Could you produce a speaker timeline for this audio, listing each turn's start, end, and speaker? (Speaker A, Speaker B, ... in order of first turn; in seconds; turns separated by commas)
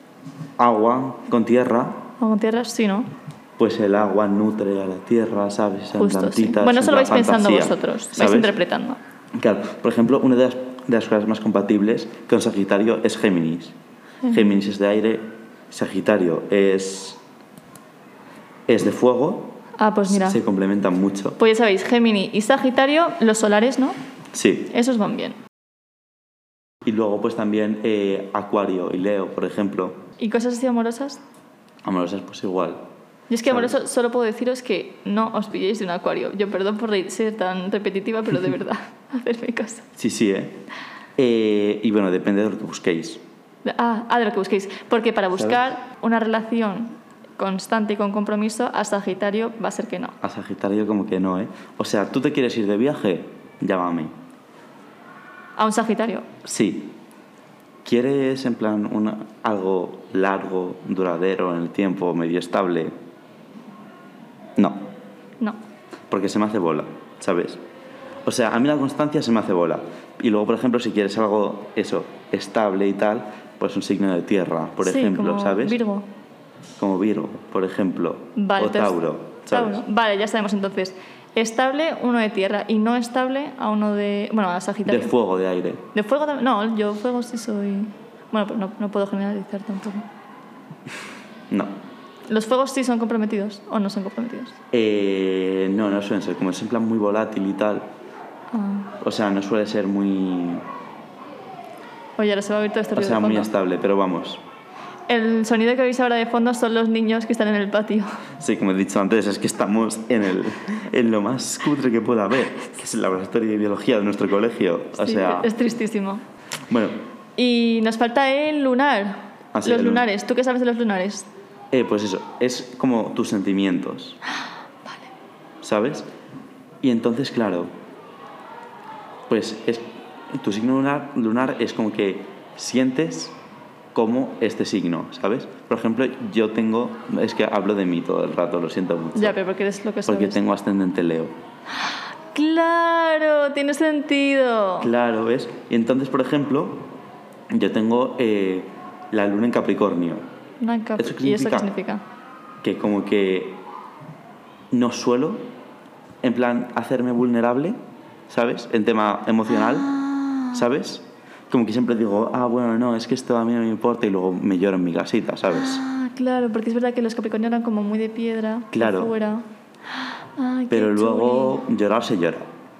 Speaker A: 0.6-2.1, Speaker B: 2.2-3.1, Speaker A: 3.6-8.6, Speaker B: 6.0-9.0, Speaker A: 9.3-13.8, Speaker B: 14.2-14.5, Speaker A: 14.3-17.2, Speaker A: 18.7-21.4, Speaker B: 19.8-20.4, Speaker B: 21.4-24.0, Speaker A: 24.3-24.7, Speaker B: 24.7-25.4, Speaker A: 26.8-30.1, Speaker B: 30.2-31.2, Speaker A: 31.8-32.9, Speaker B: 33.3-39.9, Speaker A: 33.5-33.7, Speaker A: 40.0-40.6, Speaker A: 41.2-43.2, Speaker B: 43.6-50.1, Speaker A: 50.2-54.1, Speaker B: 55.6-56.3, Speaker A: 56.4-57.0, Speaker A: 57.8-62.9, Speaker A: 64.6-64.9, Speaker A: 66.1-67.6, Speaker A: 68.2-75.8, Speaker B: 74.8-76.1, Speaker A: 76.8-79.8, Speaker B: 78.4-85.1, Speaker A: 84.9-85.9, Speaker B: 85.9-90.1, Speaker B: 92.3-94.6, Speaker A: 94.7-97.9, Speaker B: 98.5-98.9, Speaker A: 99.0-100.6, Speaker B: 102.2-103.5, Speaker A: 103.0-104.4, Speaker B: 105.1-108.1, Speaker A: 108.4-115.5, Speaker B: 115.0-116.2, Speaker A: 116.7-117.0, Speaker B: 117.4-121.3, Speaker A: 119.5-120.1, Speaker A: 121.7-124.2, Speaker A: 125.6-126.1, Speaker A: 126.8-127.7, Speaker A: 129.3-133.4, Speaker A: 133.9-139.4, Speaker B: 139.2-140.4, Speaker A: 140.1-141.3, Speaker B: 142.3-144.9, Speaker A: 144.8-146.9, Speaker A: 147.5-150.2, Speaker B: 150.6-152.0, Speaker A: 151.0-151.7, Speaker A: 152.6-153.6, Speaker A: 154.7-155.5, Speaker A: 156.2-157.8, Speaker A: 158.3-159.9, Speaker B: 159.6-160.6, Speaker A: 160.5-165.8, Speaker B: 165.5-169.5, Speaker A: 168.7-169.1, Speaker B: 170.4-171.6, Speaker A: 170.7-172.5